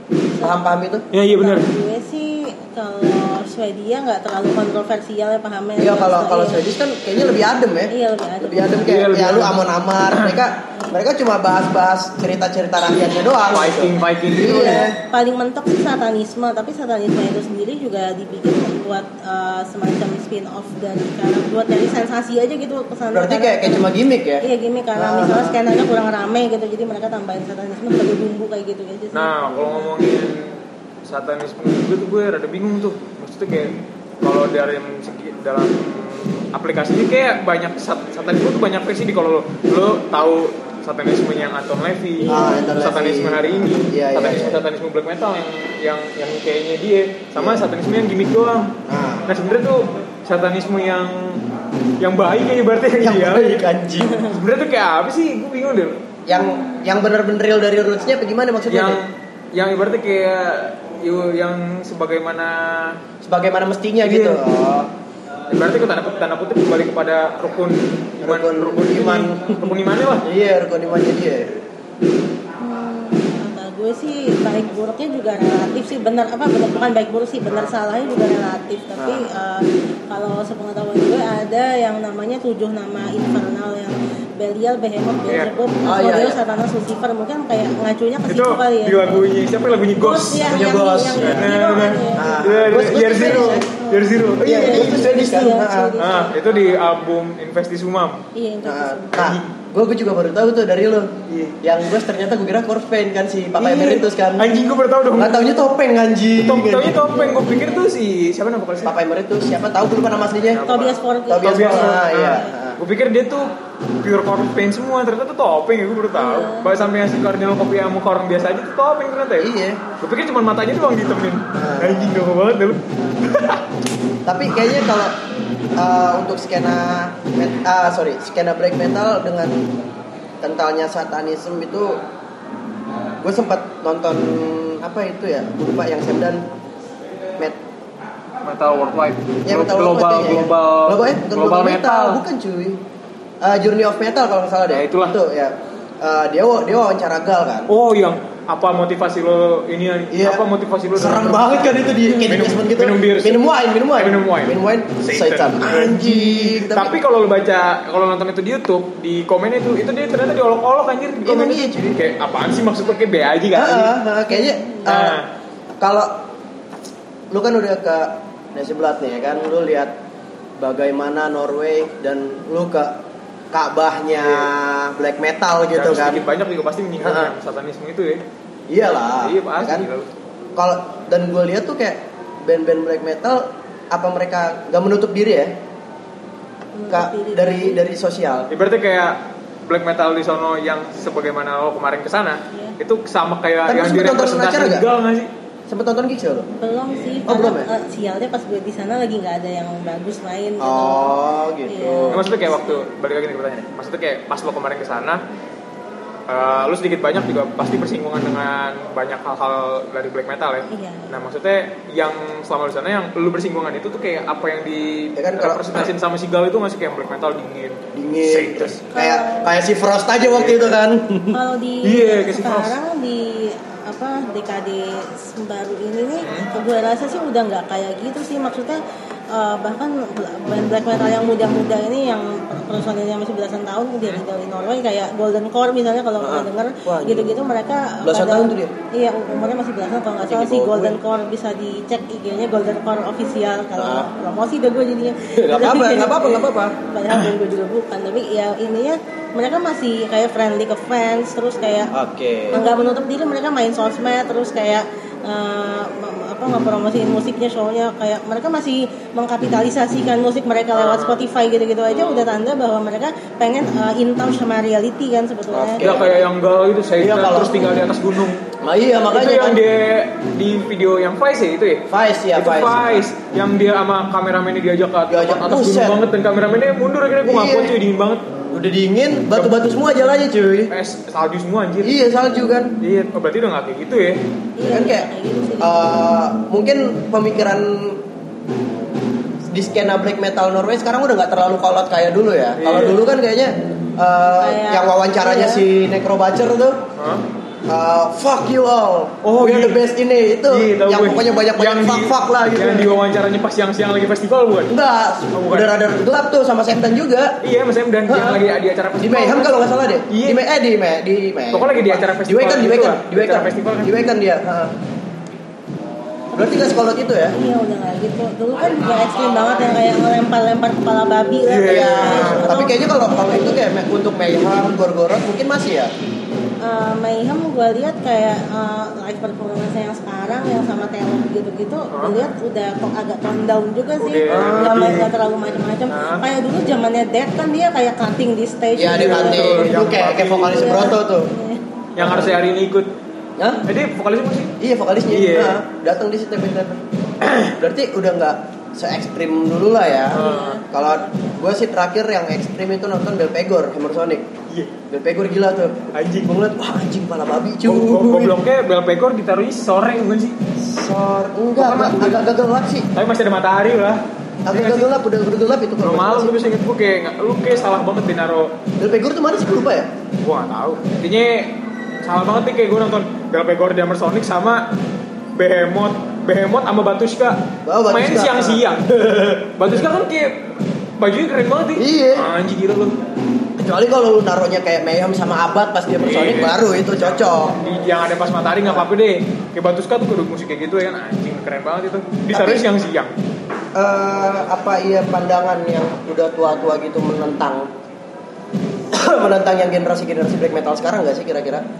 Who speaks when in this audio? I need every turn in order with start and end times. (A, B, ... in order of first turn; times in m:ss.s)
0:00.3-0:06.6 A
0:00.4-0:01.1 B
0:01.1-0:01.7 C
0:05.8-0:15.0 B
0:07.9-0:08.8 A
0:08.8-0:10.4 C
0:13.5-0:14.9 C
0:14.4-0:23.9 A
0:23.1-0:25.6 B
0:24.4-0:29.9 A
0:29.1-0:48.7 C
0:42.2-0:42.8 A
0:42.3-0:44.6 B
0:47.3-0:47.6 B
0:48.9-0:49.3 B
0:49.2-0:51.4 C
0:52.0-0:56.0 C
0:53.0-0:54.3 B
0:56.3-0:59.0 B
0:58.7-1:03.0 C
1:03.2-1:04.9 B
1:04.0-1:04.4 C
1:05.5-1:10.2 C
1:08.2-1:11.5 B
1:12.6-1:29.3 A
1:17.5-1:17.7 C
1:19.0-1:19.4 B
1:25.3-1:25.5 C
1:25.8-1:26.4 B
1:28.3-1:30.5 C
1:30.0-1:36.4 A
1:30.4-1:31.5 B
1:31.2-1:35.3 C
1:32.1-1:33.6 B
1:34.4-1:35.9 B
1:36.0-1:38.2 C
1:38.3-1:39.3 A
1:38.6-1:44.6 B
1:39.2-1:39.5 C
1:41.3-1:41.6 C
1:43.6-1:45.7 C
1:45.1-1:47.0 B
1:46.4-1:48.9 C
1:47.1-1:47.9 A
1:48.8-1:50.6 B
1:50.5-1:53.5 C
1:50.6-1:52.5 A
1:51.3-1:52.8 B
1:54.0-1:59.5 C
1:56.1-1:56.7 A
1:59.4-1:59.8 B
2:00.0-2:03.6 C
2:01.5-2:02.2 B
2:04.2-2:05.2 B
2:05.8-2:09.7 B
2:10.4-2:12.0 B
2:13.2-2:16.4 B
2:18.4-2:22.2 C
2:19.4-2:22.8 B
2:23.4-2:27.7 B
2:24.7-2:25.2 C
2:27.7-2:43.9 C
2:30.1-2:37.0 B
2:41.2-2:42.0 B
2:43.5-2:45.2 B
2:44.3-2:44.8 A
2:44.8-2:45.3 C
2:45.8-2:46.3 B
2:47.3-2:49.9 B
2:50.6-2:53.0 B
2:53.5-2:56.2 B
2:54.2-2:54.5 C
2:55.7-2:58.2 C
2:57.0-2:57.3 B
2:58.7-2:59.9 B
2:59.2-3:00.1 C
3:00.6-3:05.5 B
3:06.7-3:07.8 A
3:06.9-3:08.5 B
3:08.5-3:15.3 C
3:13.6-3:14.8 B
3:15.7-3:16.5 B
3:16.6-3:22.8 A
3:17.2-3:17.7 B
3:20.6-3:22.2 B
3:22.1-3:25.2 C
3:26.3-3:38.8 C
3:30.7-3:31.2 A
3:35.2-3:35.9 B
3:37.9-3:41.4 B
3:38.9-3:39.5 A
3:40.3-3:40.8 C
3:41.3-3:48.8 A
3:41.8-3:42.8 C
3:46.2-3:46.5 C
3:49.3-4:11.9 A
3:56.2-3:57.4 B
3:58.0-3:58.7 B
4:00.2-4:01.0 B
4:03.8-4:04.1 B
4:05.3-4:06.8 B
4:11.9-4:12.6 B
4:12.5-4:26.2 A
4:20.7-4:21.2 C
4:25.5-4:26.2 B
4:25.8-4:28.4 C
4:27.0-4:27.8 B
4:28.6-4:29.6 B
4:29.1-4:31.8 C
4:31.9-4:33.1 B
4:32.3-4:38.2 C
4:35.1-4:36.0 B
4:37.2-4:37.8 B
4:38.5-4:40.7 B
4:39.3-4:39.6 C
4:40.7-4:42.0 C
4:41.8-4:42.7 B
4:42.8-4:44.2 C
4:44.6-4:45.8 A
4:44.6-4:48.0 B
4:49.5-4:56.8 B
4:52.6-4:53.0 C
4:54.4-4:55.6 A
4:57.0-4:57.2 C
4:57.7-5:02.9 B
4:59.2-4:59.8 C
5:00.5-5:04.7 C
5:04.7-5:07.4 B
5:05.3-5:05.7 C
5:07.4-5:10.4 C
5:08.1-5:08.4 B
5:09.0-5:14.7 B
5:11.5-5:14.0 C
5:16.3-5:23.6 A
5:16.3-5:17.4 B
5:21.4-5:22.6 C
5:21.6-5:25.9 B
5:26.6-5:39.7 A
5:31.9-5:32.3 C
5:34.0-5:35.1 C
5:34.3-5:35.1 B
5:35.9-5:36.2 C
5:38.7-5:41.3 B
5:38.8-5:40.9 C
5:40.5-5:41.6 A
5:42.0-5:42.9 C
5:42.0-5:42.4 B
5:43.4-5:43.6 B
5:43.6-5:44.5 C
5:44.6-5:54.2 B
5:45.1-5:45.6 C
5:50.1-5:50.6 C
5:50.1-5:51.4 A
5:54.9-5:58.4 B
5:55.9-5:56.3 C
5:57.6-6:00.4 C
6:00.6-6:02.9 B
6:01.6-6:02.2 C
6:02.9-6:04.9 C
6:04.4-6:06.3 B
6:05.8-6:08.5 C
6:08.8-6:09.9 B
6:10.2-6:14.7 C
6:15.4-6:22.9 C
6:17.6-6:19.5 B
6:21.8-6:22.3 B
6:23.6-6:27.6 B
6:26.0-6:33.1 C
6:32.3-6:32.6 B
6:33.7-6:37.7 B
6:38.9-6:41.6 B